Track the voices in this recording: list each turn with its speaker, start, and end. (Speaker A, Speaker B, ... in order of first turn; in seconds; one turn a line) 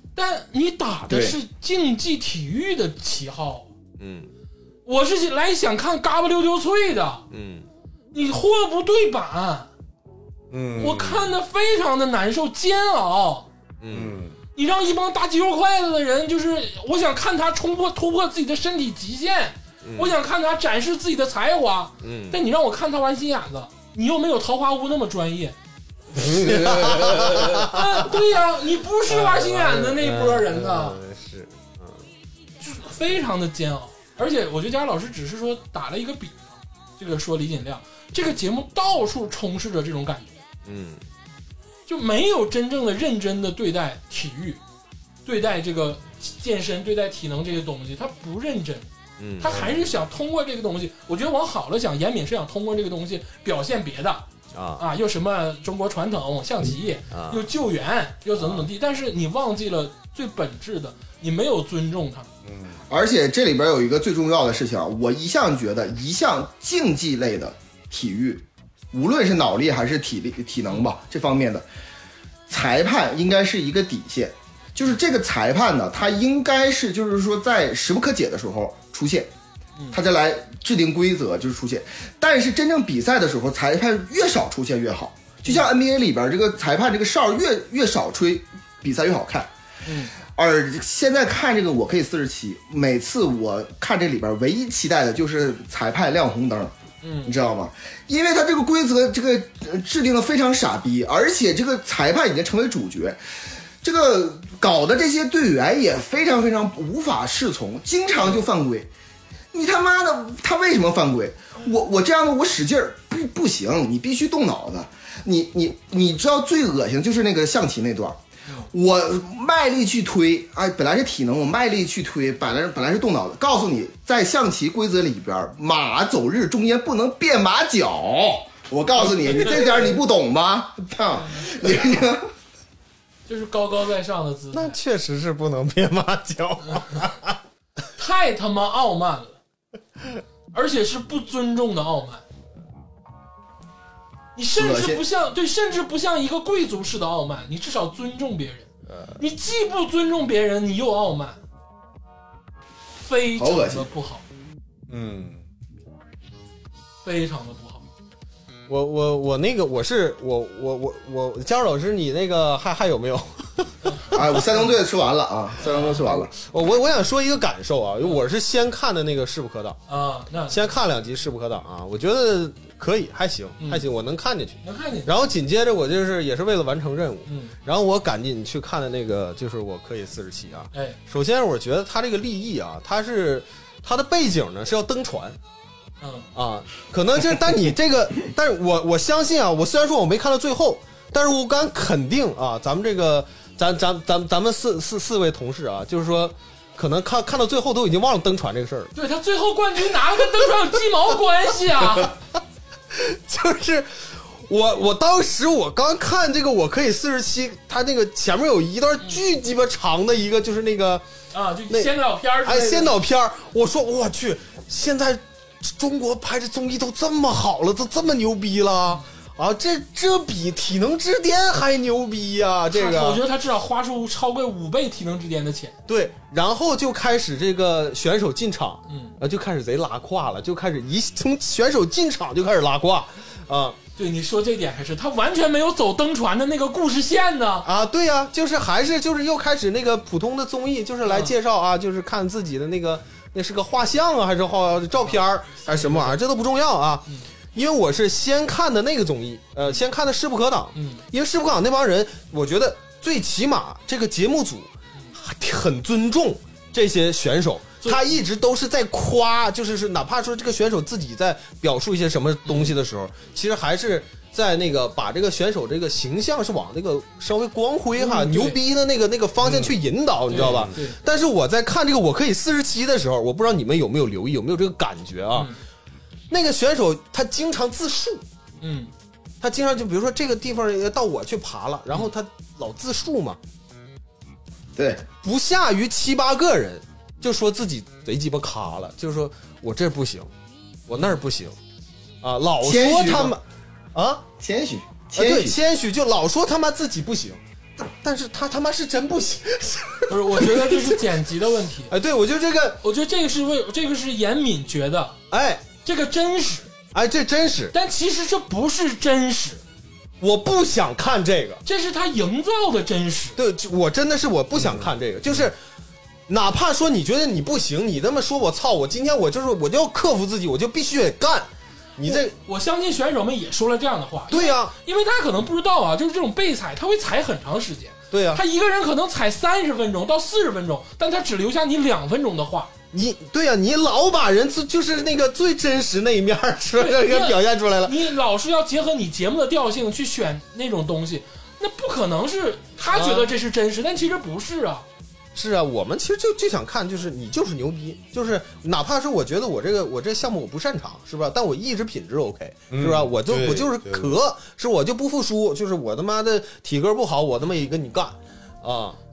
Speaker A: 0.1-3.7
Speaker B: 1.1-1.4
Speaker C: 4.0-4.3
Speaker A: 4.8-7.2
Speaker C: 7.3-7.7
Speaker A: 8.1-9.7
Speaker D: 10.5-11.3
Speaker A: 10.8-13.5
Speaker C: 13.8-14.2
Speaker D: 13.9-14.4
Speaker A: 14.5-25.6
Speaker C: 19.8-20.1
Speaker C: 22.0-22.4
Speaker C: 26.2-27.8
Speaker D: 26.2-27.5
Speaker A: 27.6-31.0
Speaker C: 29.1-32.0
Speaker A: 32.6-40.4
Speaker C: 40.6-41.0
Speaker A: 41.9-44.6
Speaker A: 45.2-54.2
Speaker C: 49.2-49.7
Speaker D: 49.5-49.8
Speaker C: 54.5-54.8
Speaker A: 54.8-62.3
Speaker C: 57.1-57.4
Speaker D: 62.4-62.8
Speaker B: 62.9-71.6
Speaker B: 72.5-79.3
Speaker B: 79.9-89.5
Speaker A: 89.8-90.1
Speaker B: 90.2-103.2
Speaker A: 97.0-97.3
Speaker B: 103.8-108.9
Speaker B: 109.5-118.2
Speaker B: 118.7-132.3
Speaker A: 129.1-129.9
Speaker A: 133.3-134.8
Speaker C: 134.5-137.4
Speaker A: 136.7-136.9
Speaker A: 137.9-139.4
Speaker A: 140.5-142.2
Speaker A: 144.3-151.4
Speaker B: 144.6-145.0
Speaker C: 148.9-149.2
Speaker A: 153.0-154.2
Speaker B: 153.4-153.9
Speaker D: 154.9-155.4
Speaker A: 157.0-157.8
Speaker C: 158.7-164.3
Speaker A: 163.8-164.1
Speaker B: 164.1-166.3
Speaker A: 165.6-166.0
Speaker C: 166.1-169.8
Speaker A: 169.9-170.7
Speaker C: 170.5-185.4
Speaker A: 174.6-175.1
Speaker A: 177.2-177.5
Speaker A: 180.7-181.0
Speaker A: 186.0-186.3
Speaker C: 186.3-198.9
Speaker A: 198.9-202.1
Speaker C: 202.9-211.0
Speaker A: 211.3-212.9
Speaker C: 211.7-223.2
Speaker A: 222.7-225.8
Speaker C: 225.9-233.8
Speaker A: 228.9-229.1
Speaker A: 234.0-237.7
Speaker C: 237.6-275.5
Speaker A: 241.0-241.3
Speaker A: 245.0-246.2
Speaker A: 250.7-251.0
Speaker A: 257.8-258.2
Speaker A: 262.4-262.7
Speaker A: 267.9-268.6
Speaker D: 269.4-269.8
Speaker A: 270.3-271.0
Speaker D: 270.3-270.8
Speaker C: 276.3-278.2
Speaker A: 278.6-278.9
Speaker C: 279.4-283.4
Speaker B: 284.8-285.1
Speaker C: 285.2-290.3
Speaker C: 290.9-291.6
Speaker A: 290.9-291.1
Speaker C: 292.2-293.4
Speaker B: 292.6-293.4
Speaker C: 293.9-294.2
Speaker B: 294.4-295.6
Speaker C: 295.1-301.0
Speaker A: 300.1-301.9
Speaker C: 301.9-302.8
Speaker A: 302.8-305.1
Speaker C: 305.3-305.6
Speaker A: 305.8-306.7
Speaker C: 306.9-307.7
Speaker A: 307.7-309.6
Speaker C: 310.2-311.6
Speaker A: 311.6-313.4
Speaker C: 313.4-315.6
Speaker D: 314.6-315.5
Speaker C: 316.3-322.3
Speaker A: 322.0-332.7
Speaker C: 324.3-324.7
Speaker C: 328.1-328.4
Speaker C: 332.9-338.0
Speaker A: 336.8-344.9
Speaker C: 342.9-343.3
Speaker C: 345.3-359.0
Speaker D: 352.7-354.1